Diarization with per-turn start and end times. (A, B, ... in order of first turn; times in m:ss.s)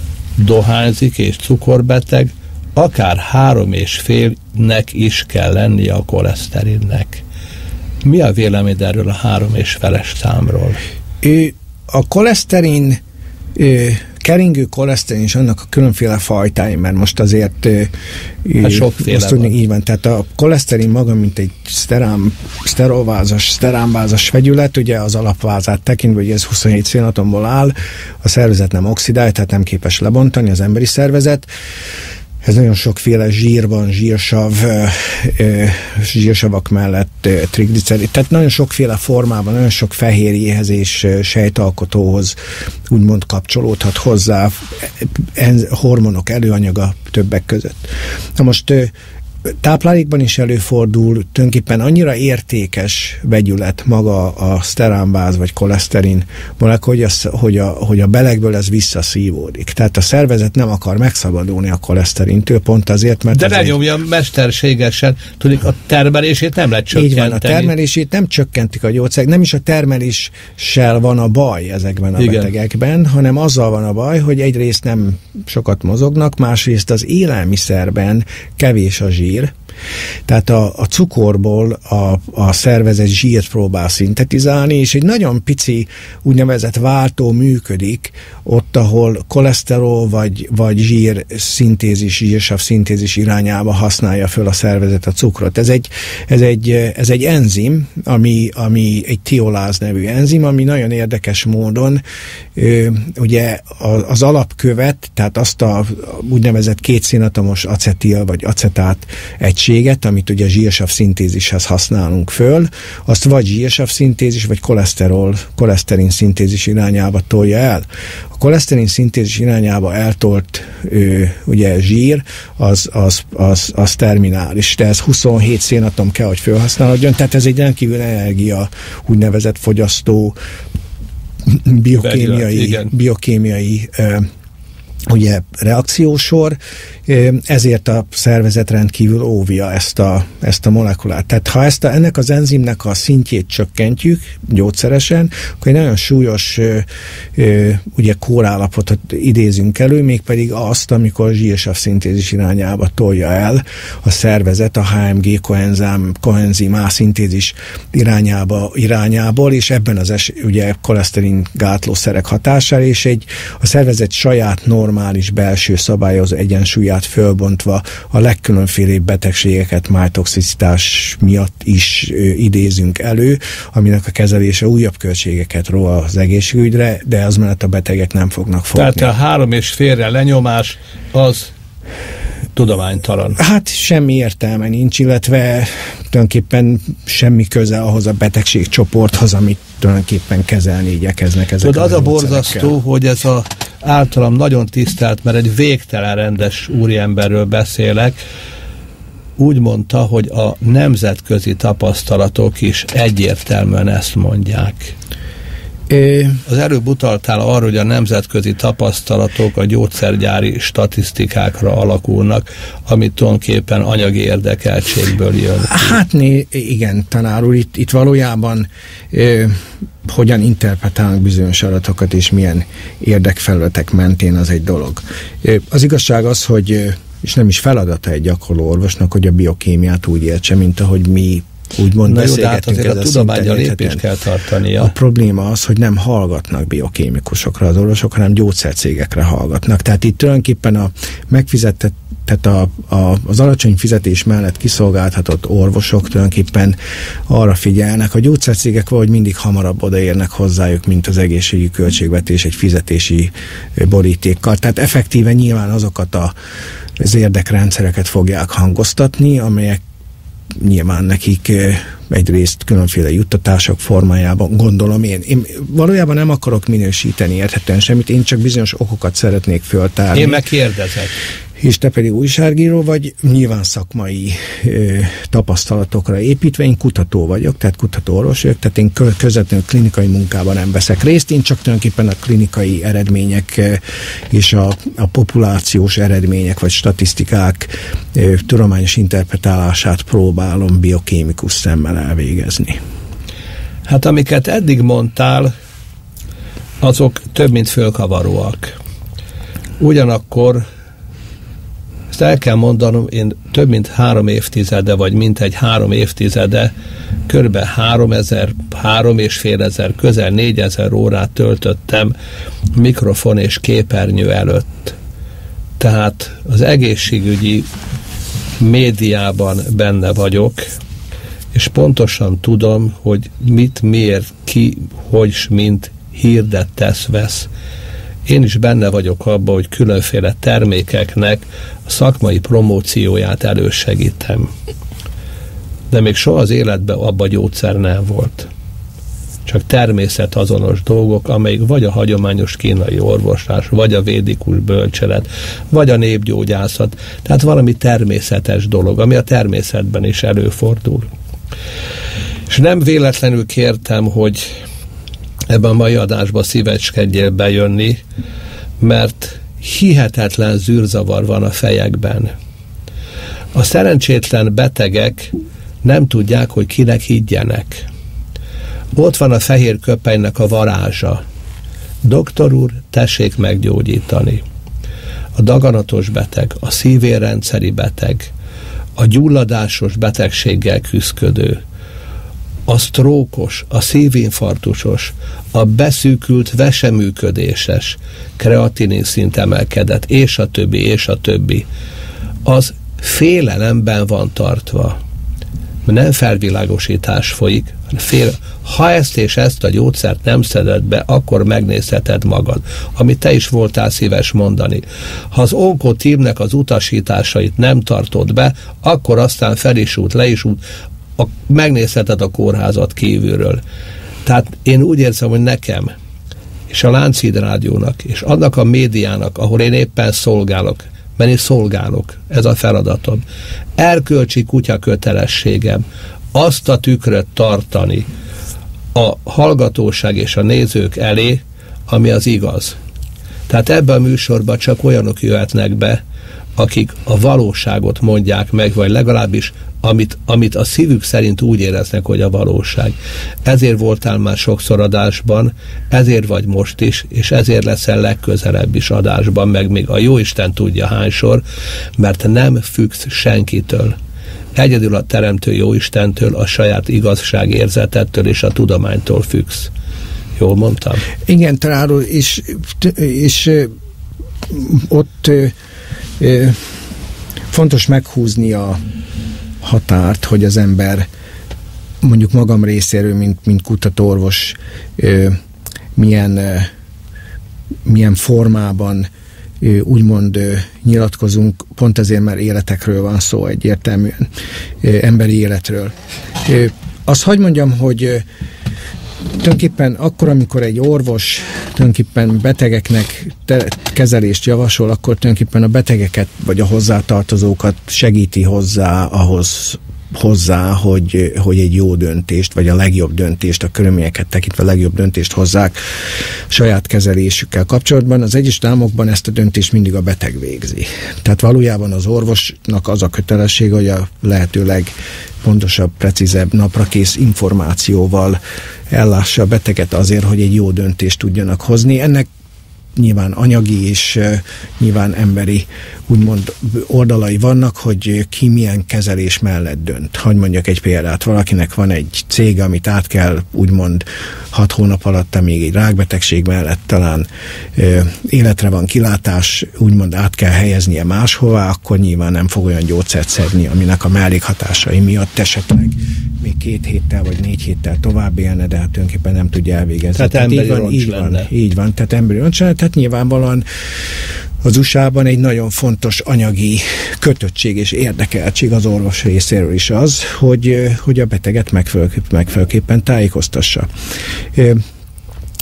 0:00.4-0:07.2 A
0:08.0-0:10.8 A
0:11.2-0:13.0 B
0:13.6-0:17.9 B
0:18.4-0:31.5 B
0:18.6-0:19.5 A
0:32.4-0:42.4 B
0:42.9-0:48.9 B
0:49.5-1:03.8 B
1:03.3-1:07.7 A
1:06.9-1:19.5 B
1:12.2-1:12.5 A
1:20.3-1:42.0 B
1:42.6-2:10.4 B
2:11.4-2:14.3 B
2:12.0-2:12.9 A
2:15.1-2:59.1 B
2:58.7-3:01.5 A
3:02.6-3:03.4 A
3:03.4-3:12.8 B
3:11.6-3:18.2 A
3:19.4-3:25.0 A
3:25.9-3:26.4 B
3:26.4-3:36.0 A
3:35.6-3:54.0 B
3:52.0-3:54.9 A
3:54.8-4:06.8 B
4:07.3-4:16.3 B
4:17.0-4:19.8 B
4:20.6-4:30.4 B
4:30.1-4:31.1 A
4:31.6-4:52.8 B
4:53.8-4:55.5 A
4:56.8-4:58.7 A
4:59.8-5:00.6 A
5:02.1-5:06.7 A
5:07.3-5:12.1 A
5:12.7-5:15.0 A
5:15.8-5:17.7 A
5:18.6-5:20.7 A
5:21.5-5:27.5 A
5:28.2-5:34.5 A
5:35.9-5:38.5 A
5:39.5-5:51.1 A
5:52.5-5:54.5 A
5:55.5-5:58.0 A
5:58.8-6:02.3 A
6:03.5-6:07.8 A
6:08.9-6:11.2 A
6:12.0-6:14.4 A
6:15.4-6:18.3 A
6:19.0-6:21.6 A
6:22.7-6:31.6 A
6:32.4-6:35.0 A
6:35.8-6:50.6 A
6:51.2-6:53.6 A
6:54.2-6:55.9 A
6:56.7-7:03.2 A
7:03.8-7:08.1 A
7:08.9-7:12.8 A
7:13.5-7:16.0 A
7:16.6-7:31.4 A
7:32.0-7:34.0 A
7:34.5-7:39.7 A
7:40.4-7:41.0 A
7:41.2-7:43.7 B
7:44.5-7:45.5 B
7:46.2-7:46.6 B
7:47.5-7:48.8 B
7:49.6-7:51.1 B
7:52.0-7:55.4 B
7:56.0-7:56.7 B
7:57.8-7:59.1 B
7:59.6-8:05.9 B
8:06.4-8:08.2 B
8:09.3-8:25.8 B
8:26.5-8:38.4 B
8:38.9-8:42.3 B
8:42.9-9:13.6 B
9:10.1-9:11.5 A
9:14.6-9:23.9 B
9:24.5-9:24.8 B